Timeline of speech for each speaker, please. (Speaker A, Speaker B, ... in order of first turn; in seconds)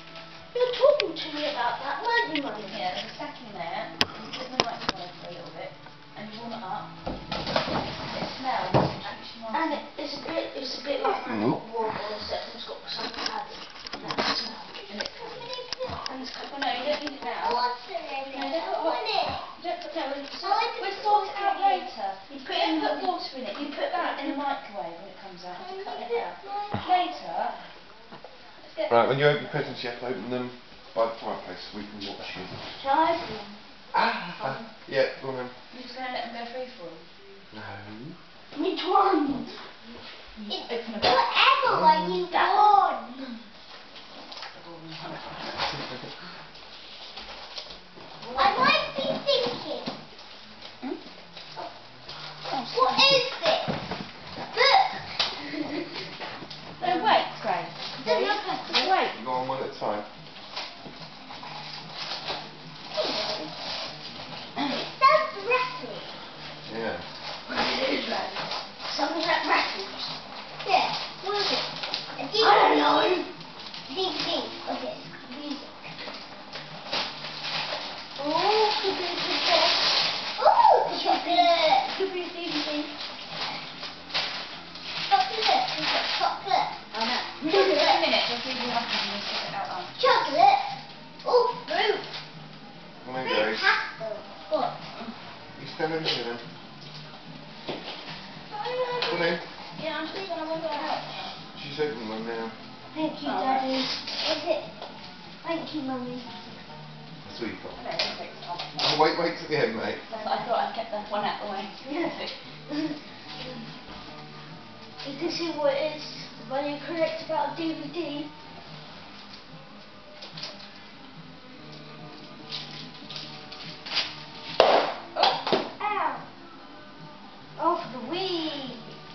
Speaker A: 0.5-2.8, 9.5-14.7, 16.1-16.8, 19.6-20.9, 22.3-24.4, 32.8-33.6, 38.5-39.5, 42.3-43.0, 48.2-48.6, 56.8-57.3, 58.0-59.1, 67.5-70.1, 72.4-73.3, 78.2-80.0, 80.8-82.9, 102.9-104.0, 105.4-106.3, 111.8-112.8, 115.0-118.3, 127.6-128.8
Speaker B: 2.6-6.9, 8.0-9.8, 13.9-15.5, 16.4-17.6, 18.3-19.0, 20.8-27.6, 28.6-29.5, 34.4-34.7, 35.7-37.1, 40.4-41.2, 44.5-45.8, 52.4-53.2, 56.8-58.9, 86.9-90.4, 99.8-101.3, 103.2-103.7, 107.7-109.0, 110.1-112.3, 125.1-125.4
Speaker C: 14.8-16.0, 17.2-19.5, 20.4-21.9, 25.5-27.1, 40.5-43.3, 48.3-49.9, 52.7-53.8, 54.5-55.1, 62.9-63.5, 64.6-66.1, 70.6-73.2, 73.8-76.0, 80.3-81.9, 85.1-86.8, 87.4-88.0, 90.0-92.1, 93.2-94.8, 98.5-99.3, 100.1-101.2, 104.2-104.7, 125.8-126.2
Speaker D: 28.9-32.6, 33.9-35.5, 37.5-38.2, 41.6-42.2, 59.1-60.1, 66.7-67.0, 93.0-93.7, 95.5-96.4, 99.0-99.4, 101.5-102.5, 107.2-107.8, 108.8-110.0